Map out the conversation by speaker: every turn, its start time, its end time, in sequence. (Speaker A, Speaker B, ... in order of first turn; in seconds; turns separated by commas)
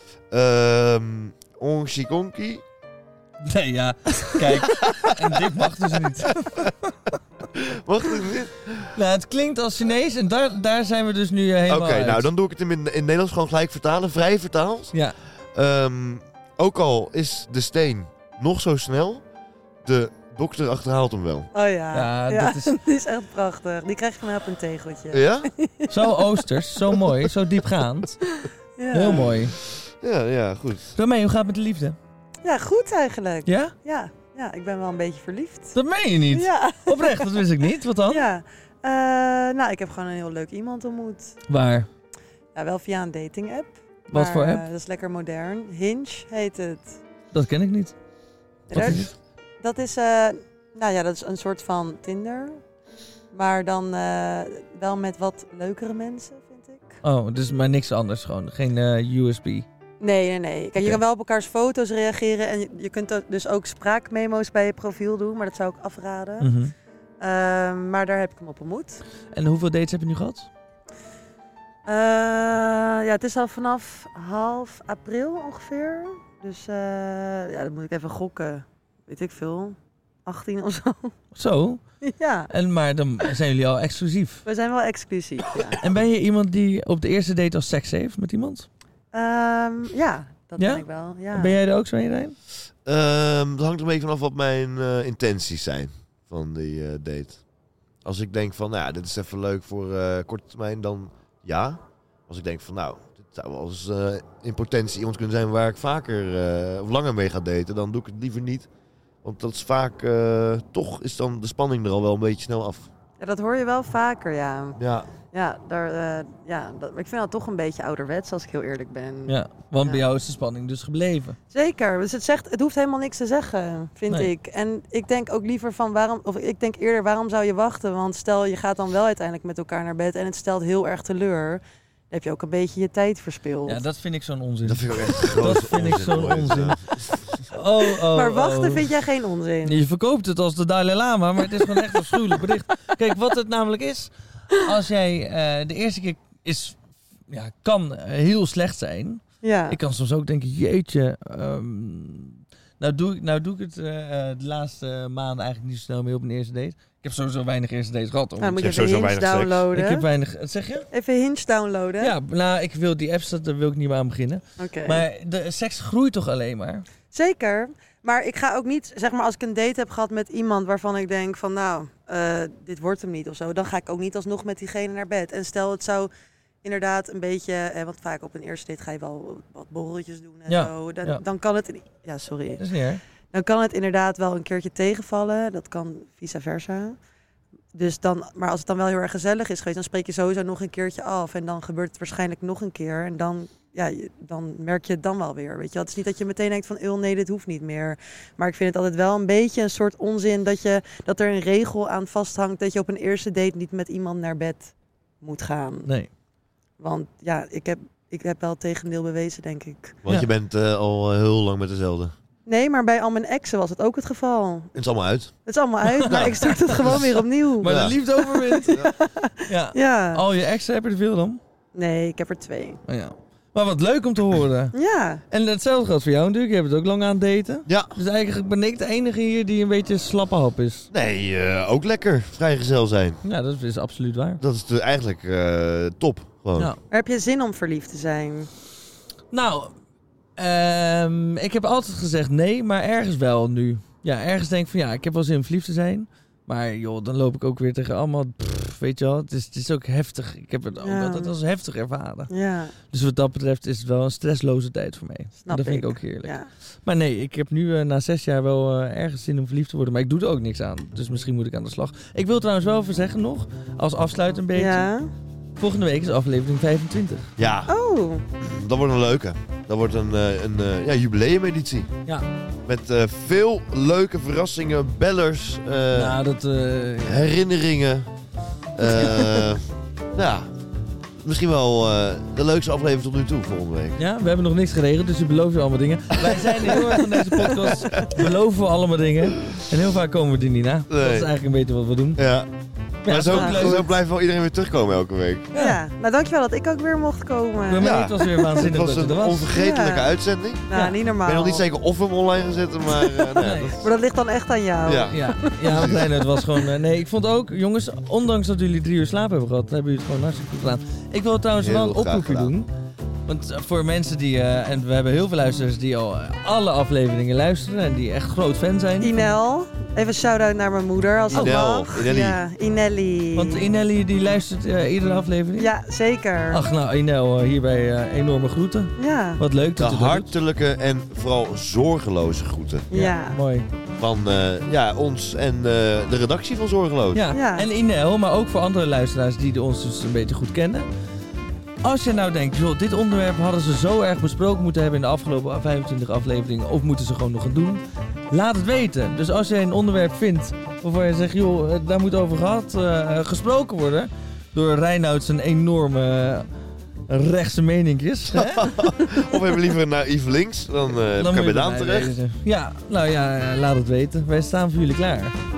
Speaker A: 0.3-2.6, Speaker B: 3.4-6.7, Speaker A: 4.7-5.4, Speaker A: 6.2-6.7, Speaker A: 7.5-8.9, Speaker B: 8.9-12.3, Speaker A: 11.7-14.9, Speaker A: 15.5-19.2, Speaker A: 19.8-21.5, Speaker C: 21.5-26.2, Speaker B: 21.9-22.8, Speaker A: 25.1-25.5, Speaker B: 25.9-28.2, Speaker C: 28.4-29.3, Speaker B: 28.9-29.6, Speaker A: 29.6-30.9, Speaker B: 30.9-32.0, Speaker C: 32.4-35.7, Speaker B: 33.5-33.7, Speaker B: 35.7-38.2, Speaker C: 36.3-37.4, Speaker C: 38.1-41.4, Speaker B: 41.5-41.9, Speaker C: 42.5-47.0, Speaker B: 44.1-44.6, Speaker B: 47.3-47.9, Speaker C: 48.7-52.6, Speaker B: 48.7-49.1, Speaker C: 53.3-57.0, Speaker B: 57.0-59.6, Speaker C: 60.0-66.5, Speaker B: 66.4-66.7, Speaker C: 67.2-69.0, Speaker B: 69.3-70.5, Speaker C: 71.8-81.1, Speaker B: 81.3-81.8, Speaker C: 82.0-82.5, Speaker B: 82.5-84.4, Speaker C: 84.4-85.8, Speaker B: 85.8-88.7, Speaker C: 89.1-91.6, Speaker B: 90.6-92.3, Speaker A: 92.8-97.4, Speaker A: 98.0-108.7, Speaker A: 109.2-112.9, Speaker C: 113.2-114.8, Speaker A: 114.8-115.1, Speaker C: 115.3-120.0, Speaker B: 119.3-121.4, Speaker C: 121.5-133.8, Speaker B: 133.7-136.8, Speaker A: 134.6-137.3, Speaker B: 137.5-138.8, Speaker C: 137.8-139.8, Speaker B: 139.6-146.8, Speaker B: 147.3-158.7, Speaker C: 149.4-149.8, Speaker C: 158.4-160.1, Speaker A: 158.6-159.7, Speaker B: 159.7-160.9, Speaker C: 160.9-162.1, Speaker B: 162.0-166.8, Speaker C: 164.6-165.0, Speaker C: 167.1-176.1, Speaker C: 176.6-182.6, Speaker B: 180.5-181.2, Speaker B: 182.6-183.0, Speaker C: 183.3-187.0, Speaker C: 187.7-205.9, Speaker C: 206.8-210.0, Speaker A: 210.0-212.1, Speaker C: 212.4-214.8, Speaker A: 214.8-215.3, Speaker C: 215.4-220.2, Speaker B: 215.8-218.8, Speaker A: 217.6-218.0, Speaker B: 219.5-221.4, Speaker C: 221.7-222.8, Speaker B: 222.9-224.7, Speaker C: 224.7-225.2, Speaker B: 225.3-230.9, Speaker A: 227.7-227.9, Speaker A: 230.9-233.2, Speaker B: 233.2-234.4, Speaker A: 234.4-236.7, Speaker C: 236.9-238.5, Speaker B: 239.3-239.7, Speaker B: 240.4-252.3, Speaker C: 250.8-251.3, Speaker C: 252.3-252.7, Speaker B: 252.9-264.9, Speaker C: 255.4-256.5, Speaker C: 264.5-265.1, Speaker B: 265.6-267.3, Speaker A: 267.4-267.7, Speaker C: 267.7-268.2, Speaker A: 268.4-271.9, Speaker A: 272.7-276.2, Speaker B: 275.9-277.3, Speaker A: 277.0-278.1, Speaker A: 278.7-280.5, Speaker A: 281.2-284.0, Speaker B: 284.0-292.2, Speaker A: 286.2-288.3, Speaker A: 290.9-291.3, Speaker A: 292.1-292.5, Speaker B: 293.0-293.9, Speaker A: 293.1-295.5, Speaker C: 293.3-293.8, Speaker C: 295.5-298.5, Speaker B: 295.5-295.8, Speaker B: 297.7-299.5, Speaker A: 297.8-300.7, Speaker C: 299.5-300.1, Speaker C: 300.7-301.6, Speaker A: 301.2-303.9, Speaker B: 303.4-303.8, Speaker C: 303.8-306.3, Speaker A: 304.9-306.1, Speaker B: 305.1-312.7, Speaker A: 311.6-312.5, Speaker B: 313.3-319.3, Speaker C: 319.0-323.7, Speaker A: 321.3-322.4, Speaker B: 323.4-325.7, Speaker C: 325.6-326.6, Speaker B: 326.5-330.3, Speaker C: 329.0-329.4, Speaker A: 329.8-332.9, Speaker C: 332.9-333.4, Speaker B: 332.9-333.7, Speaker A: 333.9-337.2, Speaker B: 337.1-340.9, Speaker C: 337.3-337.6, Speaker B: 341.8-356.5, Speaker B: 357.1-359.2, Speaker A: 358.3-362.1, Speaker B: 361.2-365.3